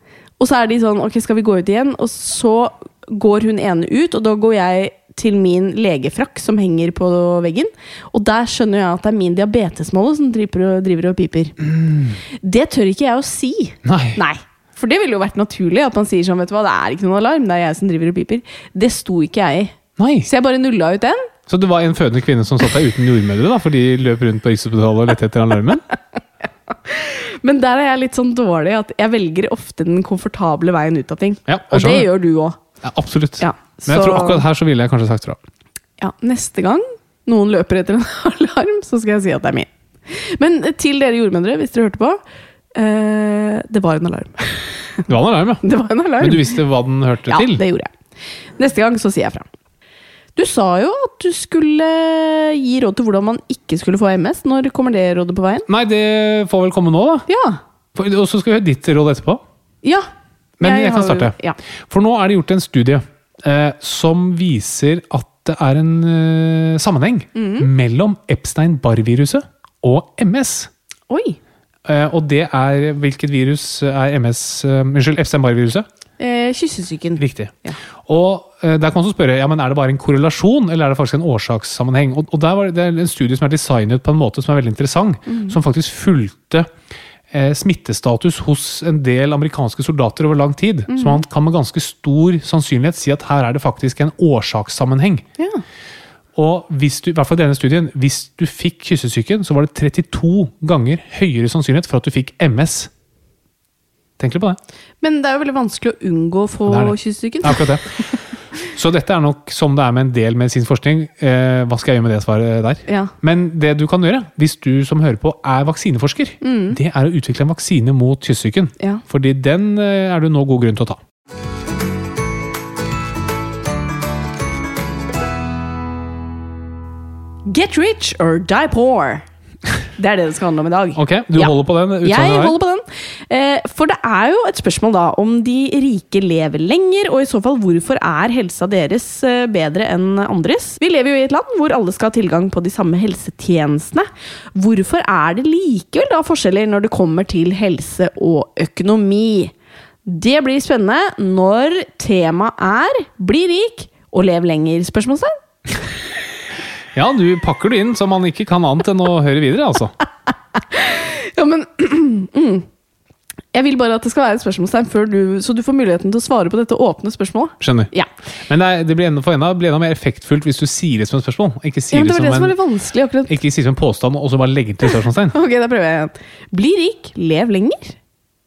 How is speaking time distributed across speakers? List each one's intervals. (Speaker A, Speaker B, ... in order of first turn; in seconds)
Speaker A: 0.4-11.5, 12.4-21.3, 26.9-32.6, 33.4-34.4, 36.0-42.2, 42.7-45.0, 45.6-46.6, 47.3-47.9, 48.6-49.4, 50.4-55.6, 57.3-57.6, 60.6-61.6, 67.3-67.7, 71.1-71.4, 76.2-77.8, 85.3-85.5, 90.9-91.2, 105.0-107.7, 112.9-113.1, 116.4-116.8, 127.5-129.2, 130.0-149.5, 150.1-155.3, 160.7-162.7, 163.5-168.1, 171.9-173.3, 175.3-177.9
Speaker B: 11.6-12.2, 13.8-14.2, 20.0-20.3, 21.5-25.8, 31.5-32.1, 32.8-35.4, 45.1-45.6, 46.2-47.6, 55.7-57.3, 57.9-59.4, 60.6-61.4, 61.9-70.7, 71.8-75.8, 77.2-86.7, 87.3-95.2, 96.3-102.9, 104.2-104.6, 106.7-108.0, 108.7-121.0, 130.9-132.6, 156.9-159.9, 167.6-167.9, 168.5-172.6, 173.3-175.3